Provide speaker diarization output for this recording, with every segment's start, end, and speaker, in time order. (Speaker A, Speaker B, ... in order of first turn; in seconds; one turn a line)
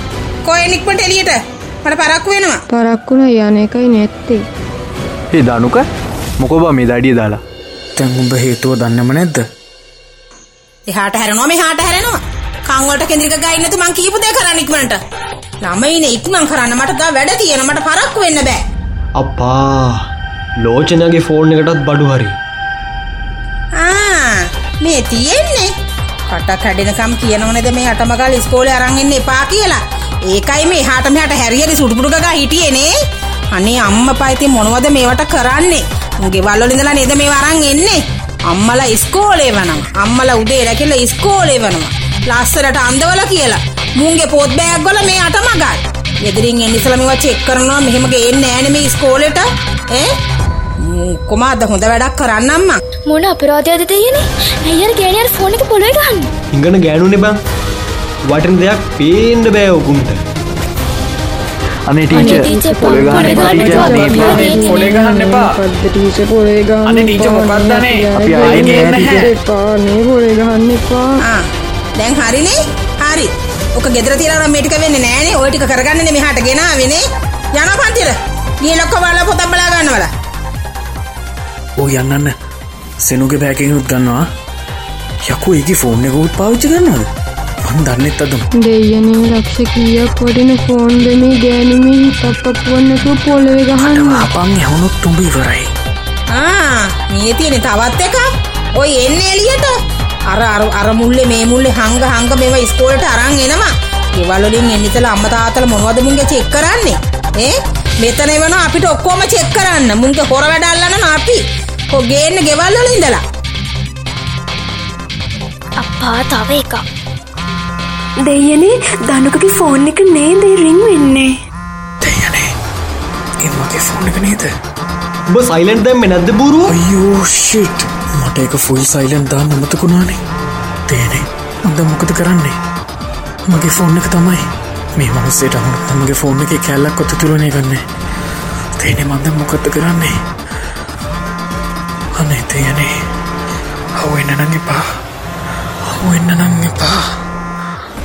Speaker A: 0.5-2.6
Speaker B: 2.7-4.4
Speaker C: 5.3-5.8
Speaker C: 6.4-7.4
Speaker D: 8.0-9.4
Speaker A: 10.9-15.0
Speaker A: 15.6-18.6
Speaker E: 19.2-20.0
Speaker E: 20.6-22.4
Speaker A: 23.8-24.3
Speaker A: 24.8-25.7
Speaker A: 26.3-32.9
Speaker A: 33.5-50.1
Speaker A: 50.8-52.8
Speaker F: 53.1-56.3
Speaker E: 56.5-57.4
Speaker E: 58.3-60.2
Speaker C: 61.9-64.4
Speaker F: 62.1-64.6
Speaker B: 62.1-71.1
Speaker D: 63.2-65.6
Speaker D: 66.9-69.3
Speaker C: 68.2-69.3
Speaker A: 72.0-80.1
Speaker D: 81.8-82.3
Speaker D: 83.0-84.2
Speaker D: 85.2-87.0
Speaker D: 87.7-88.5
Speaker B: 88.6-94.3
Speaker D: 93.8-95.7
Speaker A: 96.3-98.2
Speaker A: 98.8-99.8
Speaker A: 100.3-113.2
Speaker F: 115.8-116.8
Speaker G: 118.2-121.3
Speaker D: 122.0-122.5
Speaker D: 123.4-124.5
Speaker E: 125.3-126.8
Speaker D: 126.7-130.2
Speaker D: 130.9-132.6
Speaker D: 133.5-134.5
Speaker D: 135.0-137.8
Speaker D: 138.8-140.2
Speaker D: 142.2-142.9
Speaker D: 144.0-144.8
Speaker D: 145.8-147.1